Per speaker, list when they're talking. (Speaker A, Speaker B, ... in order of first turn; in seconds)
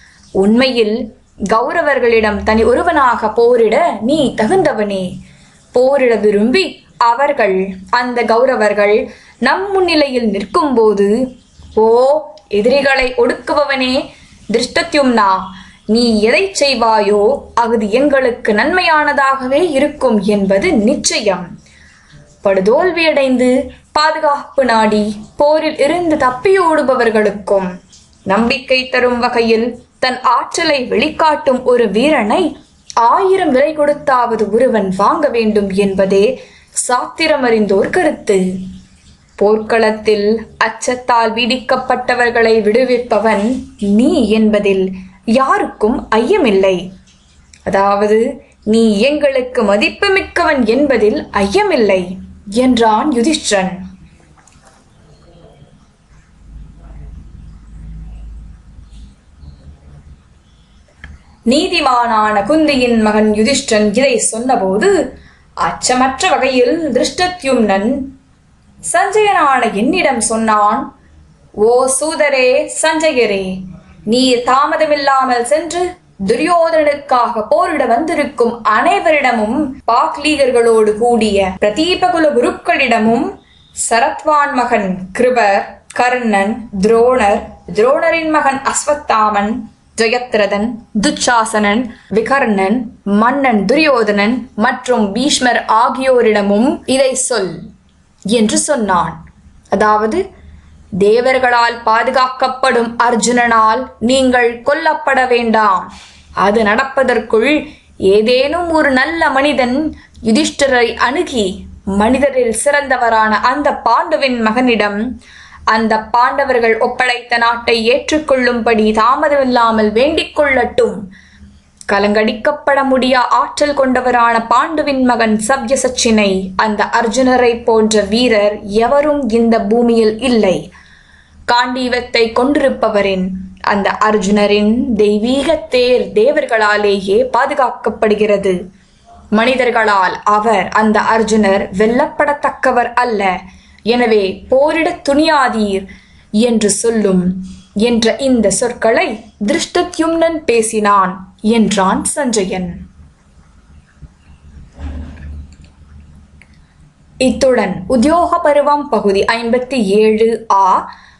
Speaker A: 0.4-5.1, 5.7-11.1, 11.8-14.0, 14.5-21.5, 22.4-27.7, 28.3-32.5, 33.0-36.3, 36.8-38.4, 39.4-46.8, 47.7-53.8, 61.5-64.9, 65.6-68.0, 68.9-70.8, 71.6-73.6, 74.1-83.3, 83.8-97.5, 98.3-99.2, 99.7-100.2, 101.0-105.9, 106.4-115.0, 115.7-121.0, 121.9-130.6, 131.5-138.6, 139.3-143.3, 143.9-145.8, 146.4-147.3, 147.8-152.7, 157.2-160.8